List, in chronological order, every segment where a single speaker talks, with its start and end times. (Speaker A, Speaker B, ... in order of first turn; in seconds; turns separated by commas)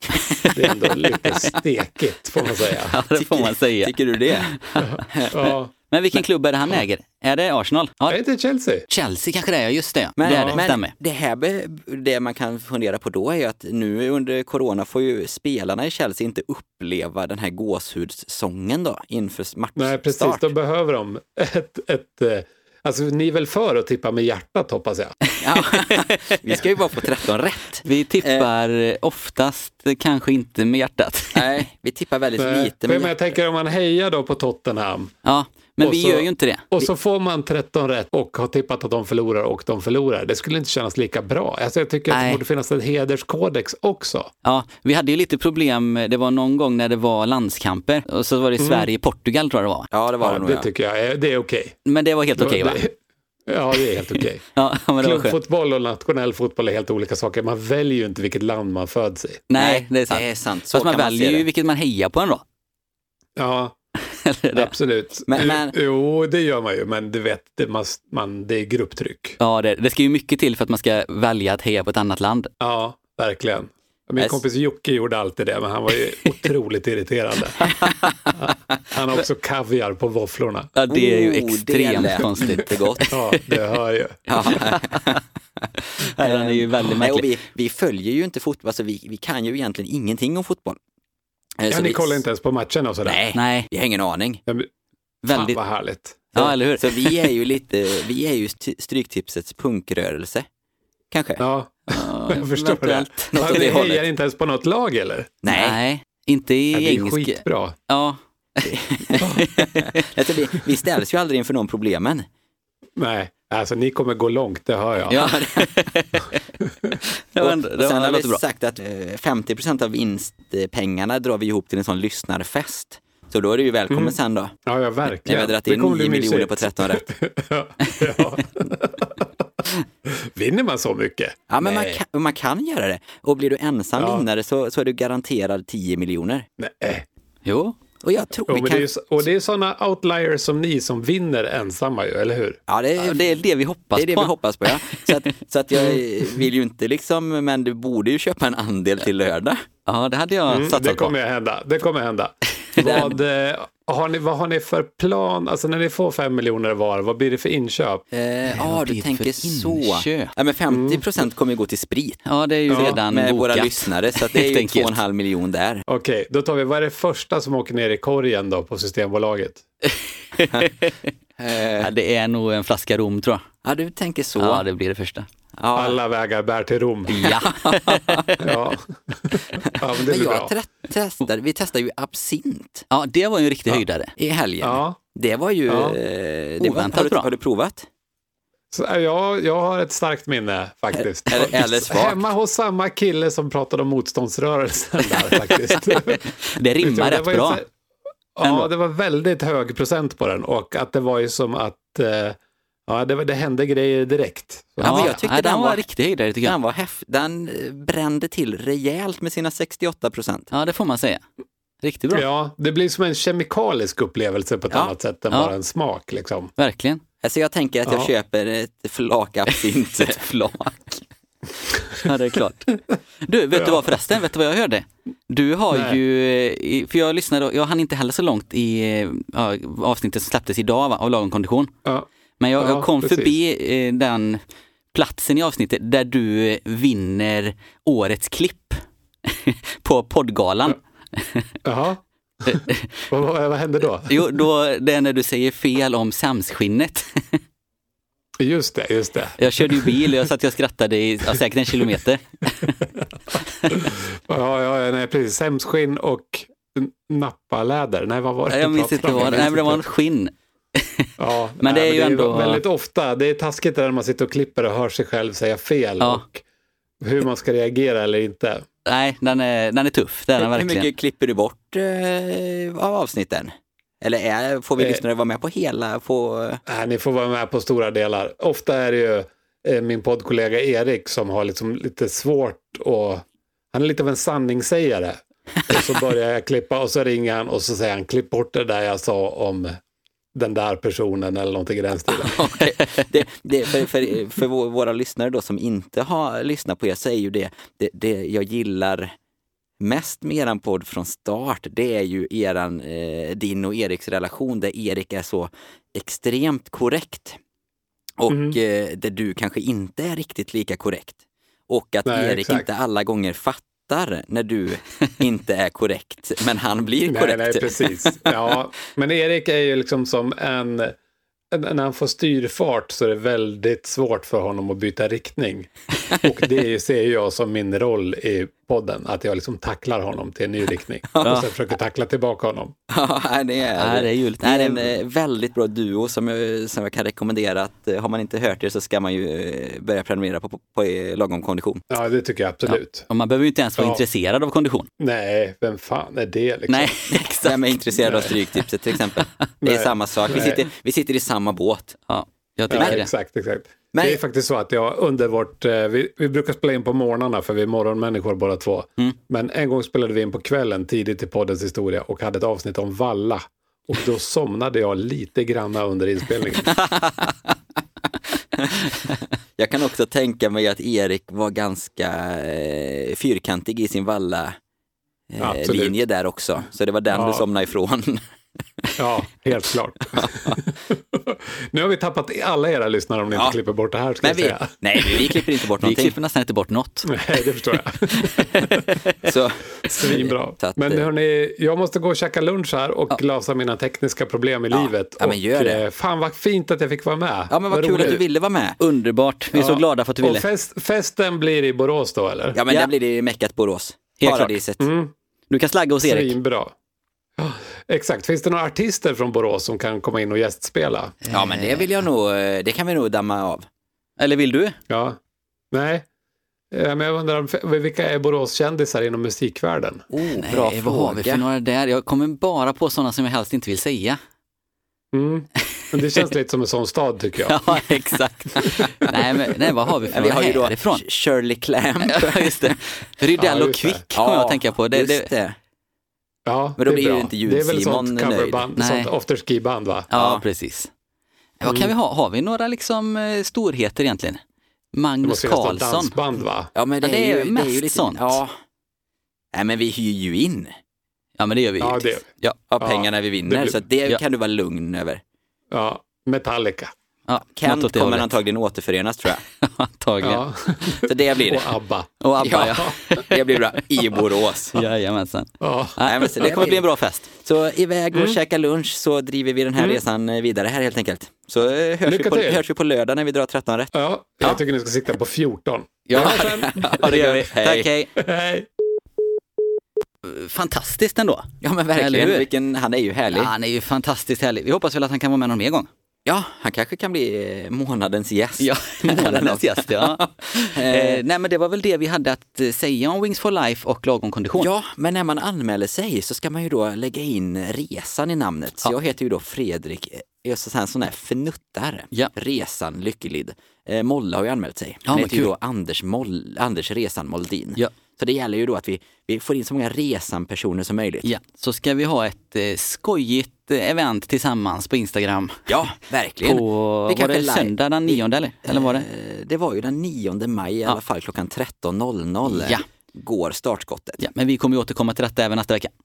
Speaker A: 0.4-1.5, Speaker B: 0.5-3.0, Speaker A: 2.9-5.0, Speaker C: 3.1-4.5, Speaker B: 4.8-5.7, Speaker C: 5.1-5.4, Speaker A: 5.9-8.2, Speaker B: 8.1-8.9, Speaker A: 8.9-10.9, Speaker C: 10.2-20.5, Speaker B: 10.2-10.6, Speaker B: 19.8-25.1, Speaker C: 25.4-28.5, Speaker A: 25.5-26.3, Speaker A: 27.8-31.6, Speaker C: 31.3-33.1, Speaker B: 32.4-35.1, Speaker A: 35.2-36.9, Speaker B: 35.8-44.3, Speaker A: 42.1-42.4, Speaker A: 44.4-49.9, Speaker B: 48.6-48.9, Speaker C: 49.9-50.7, Speaker B: 50.2-51.8, Speaker A: 51.9-52.8, Speaker B: 52.4-52.9, Speaker B: 53.5-54.4, Speaker A: 54.5-55.4, Speaker B: 55.0-59.4, Speaker A: 59.5-62.4, Speaker C: 59.5-61.5, Speaker B: 63.4-63.8, Speaker A: 64.1-64.7, Speaker B: 64.5-69.4, Speaker C: 65.3-65.7, Speaker A: 69.4-72.5, Speaker B: 72.6-77.6, Speaker B: 78.4-80.7, Speaker A: 80.7-83.1, Speaker C: 80.9-83.1, Speaker B: 83.1-84.5, Speaker C: 84.3-85.2, Speaker A: 86.2-87.3, Speaker C: 86.2-90.8, Speaker C: 91.6-92.2, Speaker B: 91.7-93.2, Speaker C: 93.0-94.4, Speaker A: 93.3-93.7, Speaker A: 95.2-95.6, Speaker B: 95.3-96.5, Speaker A: 96.3-97.2, Speaker C: 96.4-100.5, Speaker C: 101.1-101.4, Speaker B: 101.4-105.3, Speaker A: 101.9-103.7, Speaker C: 103.3-104.0, Speaker C: 105.4-105.8, Speaker A: 105.5-110.0, Speaker B: 106.7-107.8, Speaker C: 108.6-112.2, Speaker B: 109.2-109.5, Speaker B: 113.0-115.2, Speaker C: 115.1-115.7, Speaker A: 115.1-116.4, Speaker A: 117.3-118.4, Speaker C: 117.4-124.5, Speaker B: 123.9-129.4, Speaker C: 125.2-127.0, Speaker B: 130.1-132.0, Speaker C: 131.5-136.5, Speaker B: 133.9-134.2, Speaker B: 136.6-137.1, Speaker A: 137.4-137.8, Speaker C: 138.0-138.9, Speaker B: 138.5-142.6, Speaker C: 142.7-143.4, Speaker A: 143.0-145.2, Speaker C: 143.9-149.6, Speaker A: 149.8-151.1, Speaker B: 150.5-158.0, Speaker A: 152.8-153.1, Speaker C: 152.8-153.1, Speaker C: 158.1-165.8, Speaker A: 158.4-160.3, Speaker B: 160.7-161.0, Speaker A: 162.2-165.0, Speaker B: 162.7-163.0, Speaker B: 165.9-169.6, Speaker A: 169.8-170.9, Speaker C: 171.4-171.9, Speaker A: 171.8-173.4, Speaker C: 173.6-174.6, Speaker A: 174.4-175.3, Speaker C: 175.6-176.0, Speaker B: 175.7-177.2, Speaker A: 177.1-178.4, Speaker C: 177.2-178.4, Speaker B: 178.4-180.5, Speaker C: 179.6-182.8, Speaker A: 182.9-184.1, Speaker C: 184.2-187.8, Speaker B: 184.6-185.0, Speaker B: 185.7-186.0, Speaker A: 186.6-187.3, Speaker B: 188.7-196.2, Speaker C: 191.3-192.2, Speaker A: 196.5-197.6, Speaker B: 196.8-197.7, Speaker B: 198.3-205.2, Speaker A: 198.4-198.7, Speaker C: 204.8-205.8, Speaker A: 204.8-206.6, Speaker C: 206.4-210.5, Speaker A: 210.5-211.2, Speaker A: 211.8-212.2, Speaker B: 212.1-216.5, Speaker A: 216.6-217.0, Speaker C: 217.2-220.3, Speaker B: 217.8-218.1, Speaker A: 220.0-220.9, Speaker A: 222.0-231.7, Speaker B: 223.5-223.8, Speaker B: 225.7-226.0, Speaker B: 231.8-233.3, Speaker A: 232.4-234.4, Speaker A: 234.9-241.5, Speaker B: 241.6-244.3, Speaker A: 242.5-243.1, Speaker A: 244.1-247.4, Speaker B: 248.4-250.2, Speaker A: 249.4-252.8, Speaker B: 253.7-259.8, Speaker A: 258.5-261.1, Speaker B: 261.2-266.4, Speaker A: 261.6-262.6, Speaker B: 267.0-268.6, Speaker A: 268.9-270.9, Speaker C: 270.4-276.6, Speaker B: 274.8-275.0, Speaker B: 276.7-289.8, Speaker B: 290.3-292.4, Speaker C: 292.1-299.1, Speaker C: 299.8-307.4, Speaker C: 308.2-311.2, Speaker B: 308.3-308.6, Speaker C: 311.7-318.3, Speaker B: 312.0-312.7, Speaker B: 317.0-320.9, Speaker B: 321.5-325.7, Speaker B: 326.2-332.7, Speaker A: 331.2-331.5, Speaker C: 332.9-341.8, Speaker A: 333.8-334.9, Speaker B: 341.9-343.1, Speaker A: 342.7-344.9, Speaker B: 343.8-344.0, Speaker B: 345.0-346.9, Speaker A: 346.7-348.4, Speaker C: 347.1-352.0, Speaker B: 348.0-348.3, Speaker B: 349.6-350.6, Speaker A: 352.1-353.1, Speaker B: 352.7-366.7, Speaker C: 352.7-353.0, Speaker C: 353.9-354.2, Speaker C: 366.7-367.3, Speaker C: 368.6-374.6, Speaker C: 375.3-378.2, Speaker B: 375.4-376.0, Speaker B: 377.1-377.4, Speaker B: 379.0-385.3, Speaker C: 380.1-380.6, Speaker C: 384.2-386.1, Speaker A: 385.8-387.1, Speaker B: 387.1-388.9, Speaker C: 389.2-391.0, Speaker B: 389.9-398.2, Speaker C: 394.7-395.8, Speaker C: 397.5-398.8, Speaker A: 398.8-400.4, Speaker B: 399.5-402.6, Speaker C: 402.5-404.8, Speaker A: 404.2-404.5, Speaker B: 404.8-405.1, Speaker A: 405.5-406.3, Speaker B: 406.0-406.7, Speaker B: 407.4-411.1, Speaker A: 411.2-411.9, Speaker C: 411.3-413.6, Speaker A: 414.2-414.8, Speaker B: 414.9-415.2, Speaker B: 415.7-416.1, Speaker B: 416.7-420.0, Speaker C: 420.1-421.4, Speaker A: 420.4-424.2, Speaker B: 425.1-427.8, Speaker A: 427.4-431.0, Speaker C: 430.1-432.8, Speaker A: 432.0-435.3, Speaker B: 433.4-434.0, Speaker C: 434.1-435.6, Speaker B: 436.4-440.1, Speaker C: 436.8-438.6, Speaker A: 438.8-439.1, Speaker A: 440.1-440.9, Speaker C: 440.1-440.4, Speaker A: 441.6-444.4, Speaker B: 441.6-441.9, Speaker A: 444.9-446.1, Speaker B: 445.2-446.7, Speaker C: 446.7-448.6, Speaker A: 447.0-448.4, Speaker C: 449.5-450.7, Speaker A: 451.4-452.6, Speaker B: 451.8-452.2, Speaker C: 452.7-455.2, Speaker B: 452.8-453.8, Speaker B: 455.7-456.9, Speaker A: 457.3-458.3, Speaker C: 457.6-459.4, Speaker A: 459.6-460.4, Speaker B: 460.2-462.9, Speaker C: 461.0-461.7, Speaker A: 462.2-467.3, Speaker C: 462.4-464.8, Speaker B: 465.6-466.5, Speaker C: 466.1-473.9, Speaker B: 468.1-468.4, Speaker B: 469.8-470.0, Speaker B: 472.0-472.6, Speaker B: 473.9-477.1, Speaker A: 476.1-478.1, Speaker C: 476.1-477.9, Speaker B: 478.2-478.7, Speaker A: 480.2-482.5, Speaker C: 481.6-483.5, Speaker A: 483.3-485.9, Speaker C: 486.2-491.2, Speaker A: 488.6-494.7, Speaker C: 494.6-511.3, Speaker A: 505.1-505.5, Speaker A: 511.2-515.8, Speaker C: 515.7-524.2, Speaker A: 516.4-519.0, Speaker A: 522.4-522.8, Speaker A: 524.2-525.9